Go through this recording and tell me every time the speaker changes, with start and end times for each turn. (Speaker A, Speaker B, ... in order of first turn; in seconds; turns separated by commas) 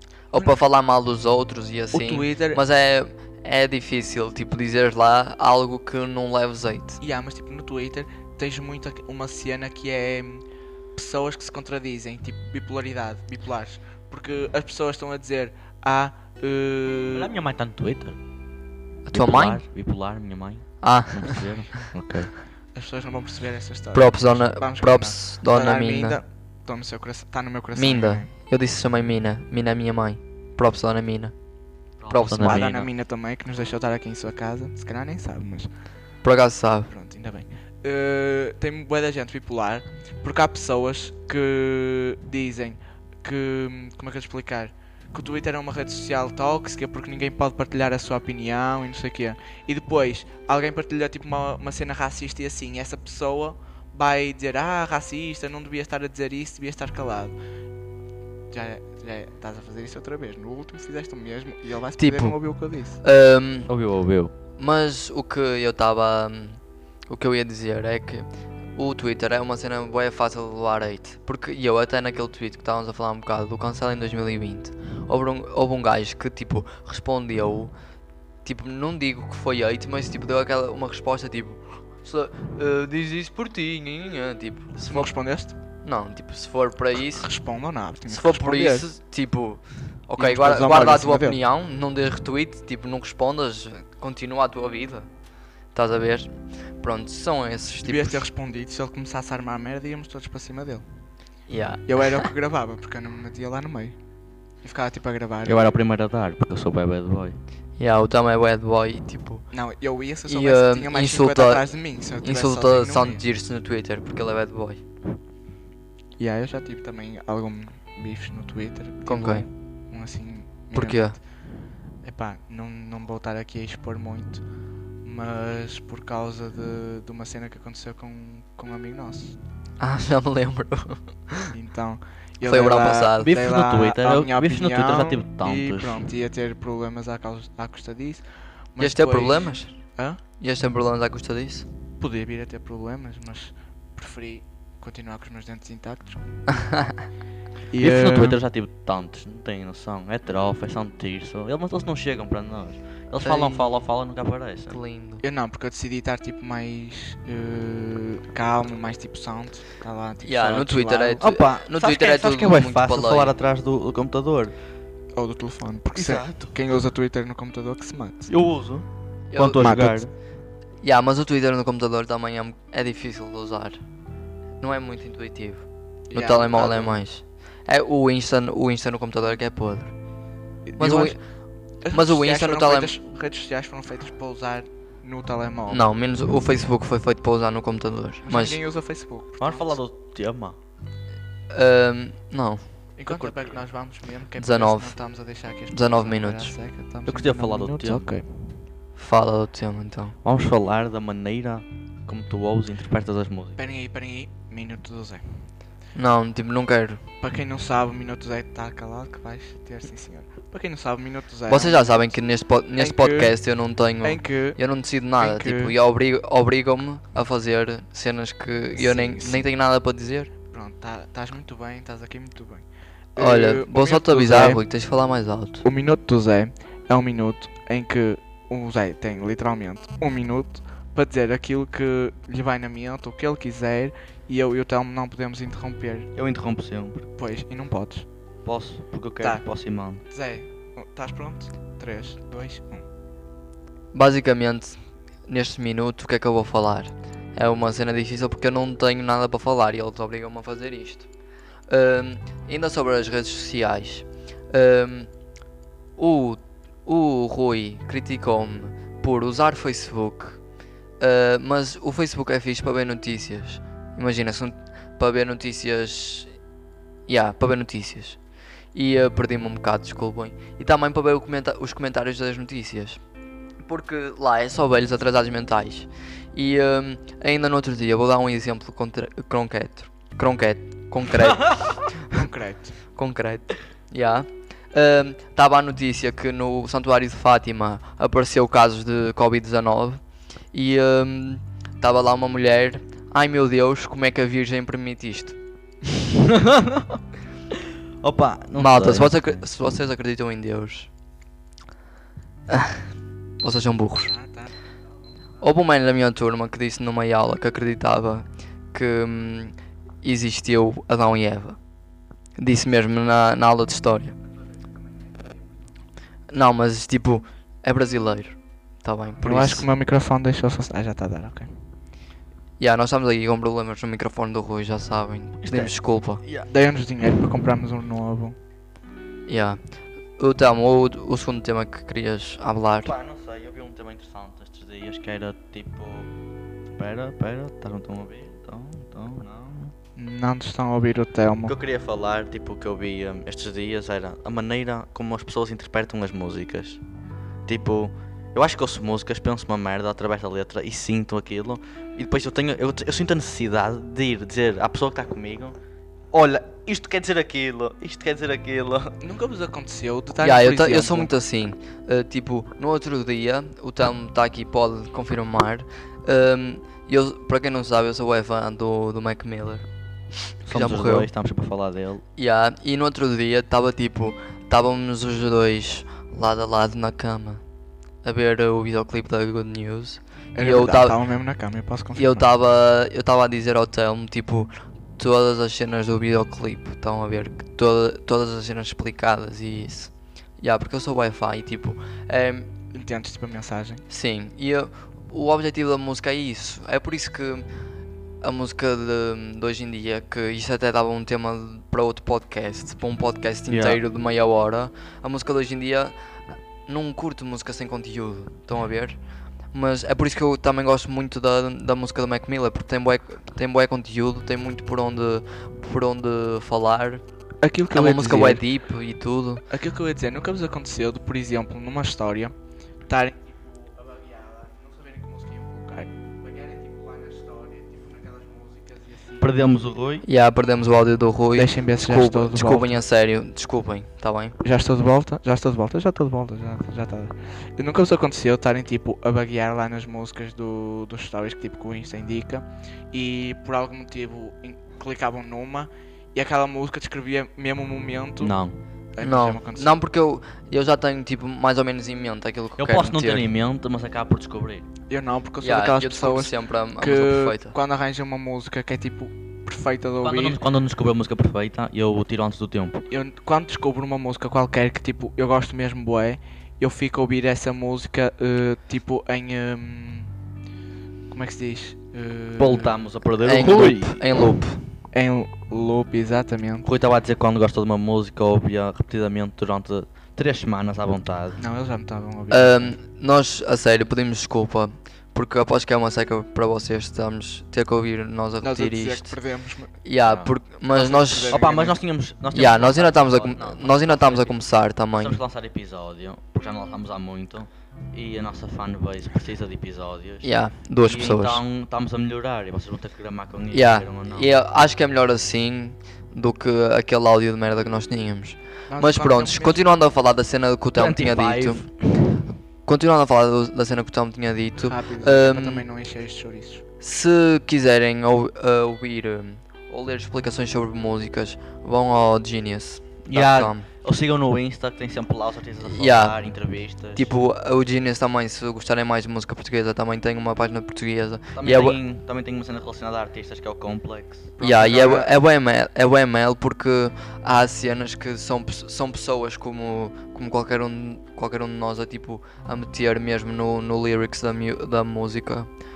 Speaker A: 0.3-7.0, Speaker B: 1.9-2.6, Speaker B: 7.0-10.4, Speaker B: 10.9-17.3, Speaker C: 17.1-18.2, Speaker A: 19.1-19.6, Speaker C: 19.1-22.3, Speaker A: 20.8-21.8, Speaker B: 22.7-28.3, Speaker A: 23.9-26.2, Speaker A: 27.7-31.3, Speaker C: 32.0-32.9, Speaker A: 32.1-32.7, Speaker B: 32.4-35.7, Speaker A: 36.2-36.9, Speaker B: 36.9-57.4, Speaker B: 58.5-63.0, Speaker A: 62.0-63.7, Speaker C: 63.7-64.3, Speaker A: 64.6-77.7, Speaker A: 78.4-85.1, Speaker B: 84.8-85.5, Speaker A: 85.8-87.3, Speaker B: 87.0-88.9, Speaker A: 88.1-95.1, Speaker B: 90.2-91.4, Speaker A: 95.7-98.3, Speaker B: 97.7-100.8, Speaker A: 101.5-102.3, Speaker B: 101.8-104.0, Speaker B: 104.6-105.8, Speaker C: 105.4-107.3, Speaker A: 107.8-109.5, Speaker B: 109.5-113.2, Speaker A: 110.3-114.8, Speaker B: 116.2-121.2, Speaker A: 119.0-119.5, Speaker A: 120.7-121.2, Speaker B: 122.0-124.4, Speaker B: 125.0-129.4, Speaker A: 129.8-131.5, Speaker B: 131.5-140.2, Speaker A: 132.4-133.3, Speaker C: 133.2-136.1, Speaker A: 138.8-139.8, Speaker A: 140.4-141.7, Speaker B: 142.0-146.2, Speaker B: 147.7-148.4, Speaker C: 147.8-154.8, Speaker A: 153.2-153.8, Speaker A: 154.7-155.2, Speaker B: 155.2-161.2, Speaker A: 160.2-163.3, Speaker C: 161.2-164.5, Speaker B: 165.1-168.3, Speaker C: 165.9-166.6, Speaker C: 168.3-170.1, Speaker A: 169.3-169.8, Speaker B: 169.6-170.0, Speaker A: 170.8-173.8, Speaker A: 174.6-179.9, Speaker B: 176.1-177.0, Speaker B: 180.7-181.2, Speaker A: 180.8-181.2, Speaker B: 181.8-185.9, Speaker A: 181.9-182.9, Speaker A: 185.7-188.6, Speaker B: 188.2-189.8, Speaker C: 189.4-190.6, Speaker A: 191.5-193.3, Speaker B: 193.0-198.4, Speaker A: 194.4-195.0, Speaker A: 195.7-196.5, Speaker C: 197.1-198.1, Speaker A: 199.0-200.2, Speaker C: 200.2-203.6, Speaker B: 203.6-205.5, Speaker A: 205.9-207.0, Speaker B: 207.2-212.2, Speaker A: 211.5-220.3, Speaker B: 212.7-213.4, Speaker B: 214.0-214.6, Speaker B: 215.2-215.7, Speaker B: 218.7-219.5, Speaker B: 220.5-224.6, Speaker A: 223.2-225.6, Speaker B: 225.6-236.1, Speaker C: 236.2-237.1, Speaker B: 237.2-238.1, Speaker C: 238.4-240.0, Speaker B: 239.2-239.4, Speaker B: 240.1-242.8, Speaker A: 243.9-251.1, Speaker A: 251.7-255.1, Speaker A: 256.0-260.4, Speaker A: 261.0-266.3, Speaker A: 267.1-268.2, Speaker A: 268.7-273.0, Speaker A: 273.6-282.2, Speaker B: 282.1-282.8, Speaker A: 282.9-295.4, Speaker C: 296.2-297.0, Speaker C: 298.0-299.7, Speaker A: 298.6-300.9, Speaker A: 302.5-302.9, Speaker A: 303.4-304.1, Speaker B: 304.1-304.5, Speaker A: 305.4-311.6, Speaker A: 312.4-314.1, Speaker A: 316.3-319.7, Speaker B: 319.2-321.5, Speaker A: 322.6-326.2, Speaker C: 325.4-326.5, Speaker B: 326.4-328.4, Speaker A: 329.3-329.6, Speaker A: 330.2-332.9, Speaker C: 332.8-336.1, Speaker C: 336.7-339.7, Speaker B: 339.9-341.5, Speaker C: 341.4-346.8, Speaker C: 347.4-355.6, Speaker C: 356.1-358.9, Speaker B: 359.0-361.1, Speaker A: 360.2-369.6, Speaker A: 370.4-371.1, Speaker C: 370.4-372.0, Speaker A: 372.2-377.4, Speaker A: 378.0-380.9, Speaker B: 380.3-382.3, Speaker A: 381.9-392.5, Speaker B: 392.7-393.8, Speaker A: 393.9-397.4, Speaker A: 398.2-405.9, Speaker C: 403.5-403.8, Speaker A: 406.7-409.0, Speaker A: 409.5-417.0, Speaker B: 417.4-418.4, Speaker A: 417.7-419.4, Speaker B: 419.5-422.3, Speaker B: 422.9-429.3, Speaker C: 429.2-430.0, Speaker A: 430.0-434.4, Speaker B: 431.3-432.8, Speaker B: 434.4-448.4, Speaker C: 448.2-448.6, Speaker B: 449.0-449.8, Speaker A: 449.0-453.2, Speaker C: 452.6-454.6, Speaker B: 454.9-460.4, Speaker A: 455.4-457.6, Speaker C: 460.0-462.8, Speaker B: 462.9-470.1, Speaker B: 471.1-472.8, Speaker C: 472.4-474.1, Speaker A: 473.2-474.6, Speaker B: 474.9-476.7, Speaker C: 476.6-481.4, Speaker B: 481.4-482.8, Speaker A: 482.3-489.2, Speaker B: 488.4-489.8, Speaker A: 489.8-491.4, Speaker C: 490.0-490.3, Speaker B: 490.7-491.8, Speaker C: 491.3-494.4, Speaker A: 492.3-495.2, Speaker C: 495.0-504.3, Speaker A: 500.2-501.4, Speaker A: 503.5-511.7, Speaker B: 508.7-509.6, Speaker C: 510.7-512.2, Speaker A: 512.6-515.6, Speaker B: 514.6-516.6, Speaker A: 516.8-523.7, Speaker C: 523.0-527.1, Speaker A: 525.6-526.2, Speaker A: 526.9-531.8, Speaker C: 531.4-534.3, Speaker B: 534.4-535.1, Speaker A: 534.4-545.5